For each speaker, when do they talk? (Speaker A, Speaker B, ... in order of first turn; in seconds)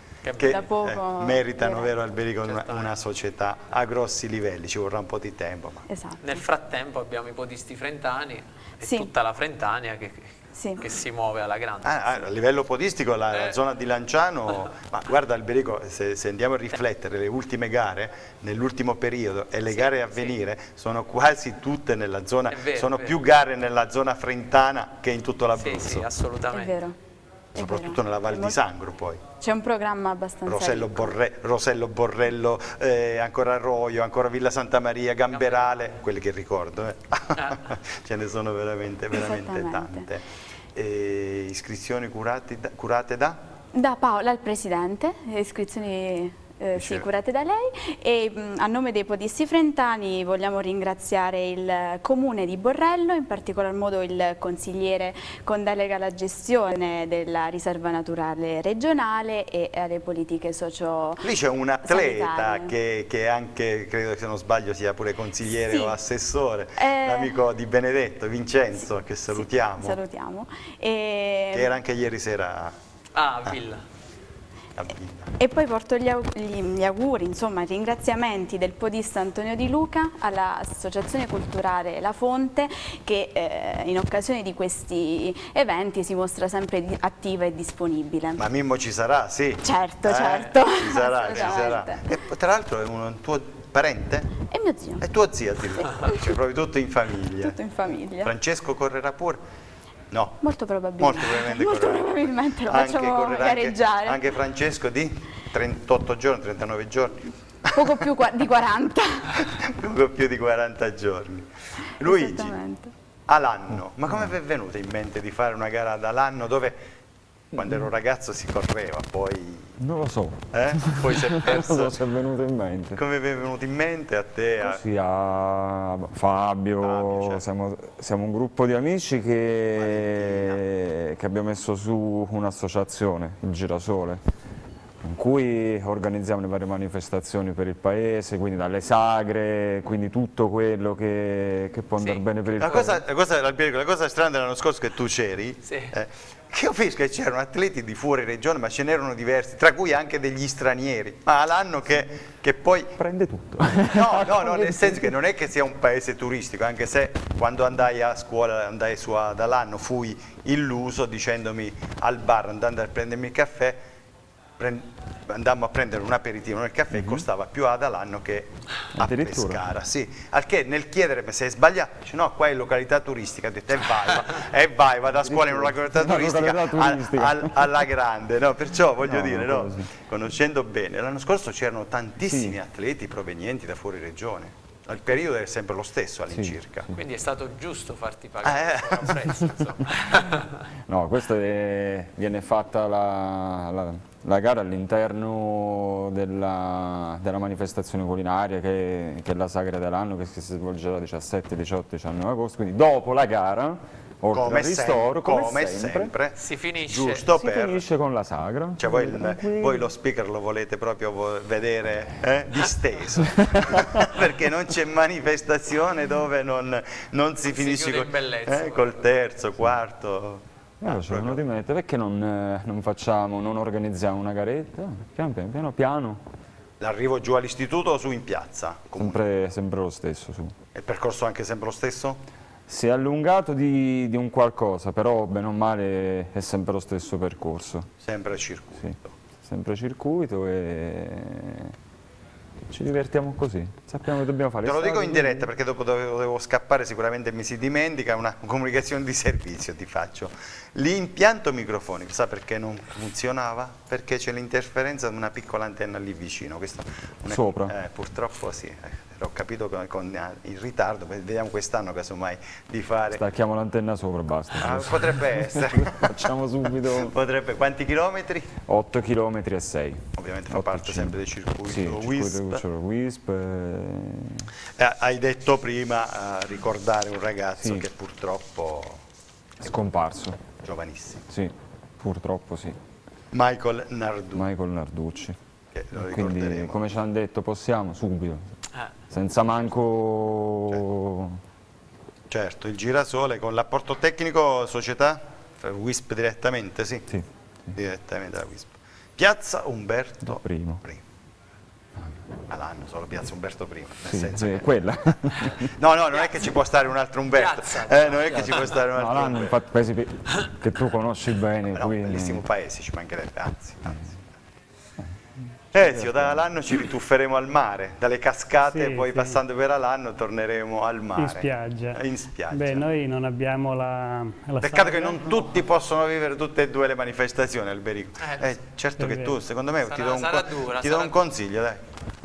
Speaker A: 0.2-0.6, 2.5-3.0, 6.2-12.3, 19.7-20.4, 22.5-23.2, 25.6-26.8, 35.3-35.9, 37.4-37.7, 73.2-73.8, 91.3-91.7, 142.0-142.3, 145.7-145.9, 186.9-190.6, 206.4-207.3, 217.5-219.1, 306.1-306.4, 307.3-308.8, 329.8-331.2
Speaker B: 0.4-5.8, 11.8-26.1, 27.6-29.2, 30.5-40.2, 40.8-43.4, 46.8-47.0, 61.2-70.0, 71.5-72.8, 74.8-75.3, 88.4-94.3, 95.0-97.6, 98.2-99.4, 100.1-100.4, 101.0-108.0, 109.3-111.5, 112.0-112.5, 113.3-116.8, 117.5-119.8, 120.5-121.9, 123.0-124.8, 126.8-127.4, 129.8-130.6, 142.6-152.9, 153.7-163.8, 164.6-186.9, 188.4-189.3, 204.3-207.9, 208.8-221.4, 226.8-229.2, 230.8-232.2, 238.0-239.1, 244.6-263.2, 264.6-266.3, 266.9-268.5, 270.2-272.6, 274.8-279.0, 280.6-281.2, 283.3-284.5, 285.7-286.8, 292.3-297.1, 297.8-301.0, 302.5-304.7, 305.4-309.6, 311.7-314.1, 315.7-322.9, 324.6-331.9
Speaker C: 0.5-1.9, 5.9-6.4, 8.8-9.1, 10.6-10.9, 26.5-27.0, 27.6-28.6, 29.4-31.1, 39.1-40.1, 43.7-61.3, 61.8-62.7, 65.5-66.0, 66.8-67.3, 69.3-71.7, 75.4-88.5, 89.6-92.0, 94.4-95.0, 95.8-96.3, 97.4-98.3, 100.4-104.2, 107.7-109.5, 112.0-112.9
Speaker D: 119.8-123.0, 124.6-134.2, 135.0-143.0, 153.0-155.1, 166.9-167.2, 169.0-169.6, 175.3-177.7, 179.0-179.9, 182.3-182.6, 186.3-187.0, 190.9-206.1, 207.3-209.8, 213.2-214.1, 220.8-226.2, 229.0-230.6, 232.7-237.9, 238.8-241.8, 242.7-245.5, 257.3-257.7, 263.1-267.1, 268.6-271.1, 271.7-274.5, 279.6-280.4, 281.3-282.8, 284.4-285.4, 286.0-288.5, 289.1-291.4, 297.1-297.7, 300.3-300.8, 304.1-305.7, 308.9-312.4, 315.8-316.4
Speaker E: 318.6-319.4, 321.2-322.0, 322.5-325.5, 329.0-329.3